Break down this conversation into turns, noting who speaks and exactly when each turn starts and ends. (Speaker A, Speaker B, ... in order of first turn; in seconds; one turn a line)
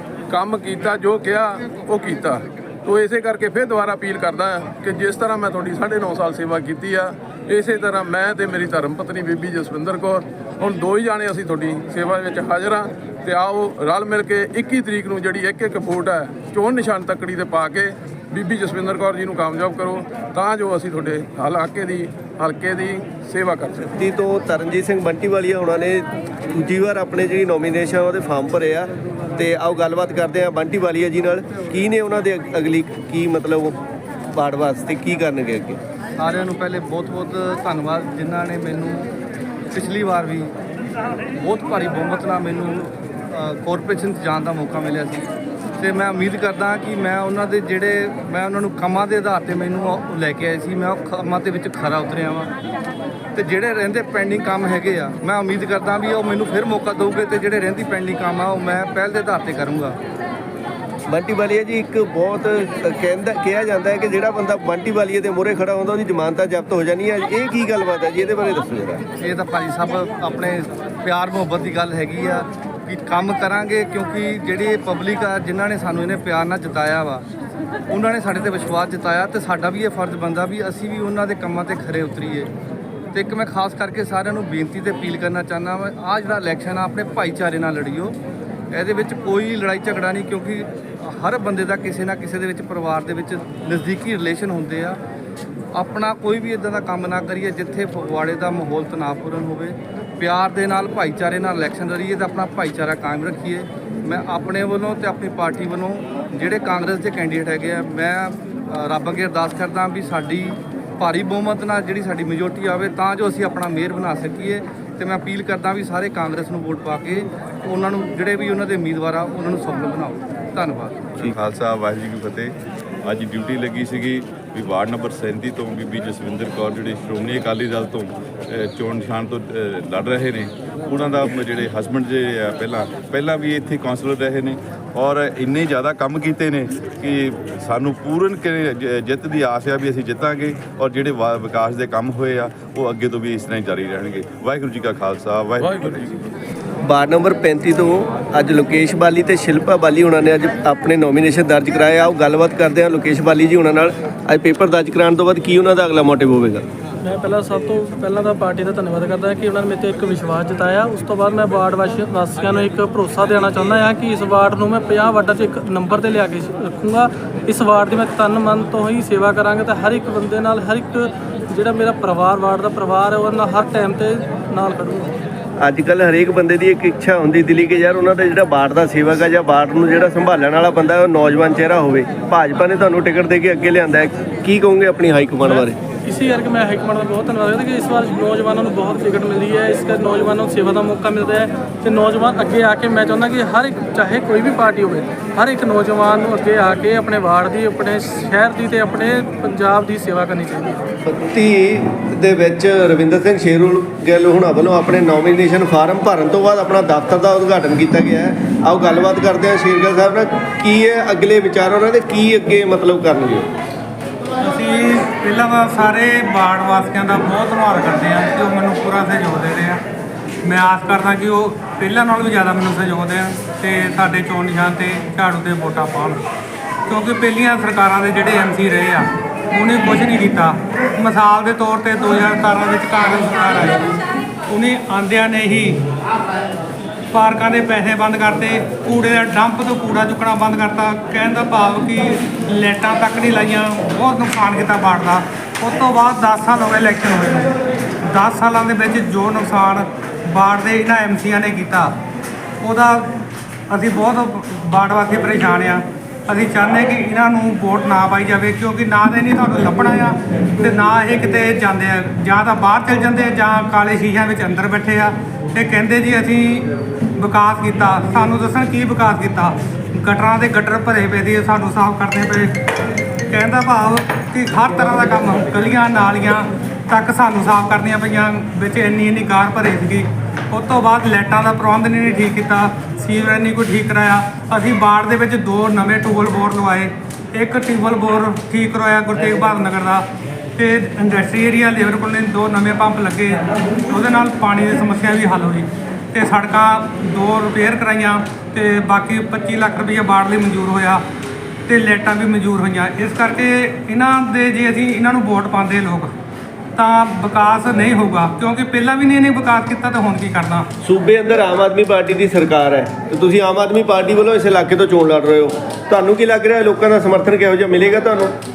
Speaker A: 0.3-23.9
Speaker B: 23.8-33.8
Speaker B: 34.3-35.8
Speaker C: 36.2-39.1
Speaker C: 39.7-40.5
Speaker C: 41.4-52.5
Speaker C: 53.4-60.0
Speaker B: 61.1-69.1
Speaker C: 69.2-77.2
Speaker C: 77.9-82.5
Speaker C: 83.1-88.2
Speaker C: 88.7-95.0
Speaker C: 95.7-121.0
Speaker D: 121.2-146.2
Speaker A: 145.6-145.9
Speaker B: 146.8-156.7
Speaker E: 157.0-175.2
Speaker B: 175.6-185.8
Speaker E: 185.5-200.8
Speaker B: 201.1-213.5
Speaker F: 214.4-219.8
Speaker F: 220.4-226.2
Speaker F: 226.9-233.9
Speaker F: 234.5-235.8
Speaker F: 237.1-247.5
Speaker F: 248.0-252.0
Speaker F: 252.6-253.2
Speaker F: 253.7-272.6
Speaker F: 273.3-301.0
Speaker F: 301.7-306.1
Speaker F: 306.8-310.7
Speaker B: 310.8-318.3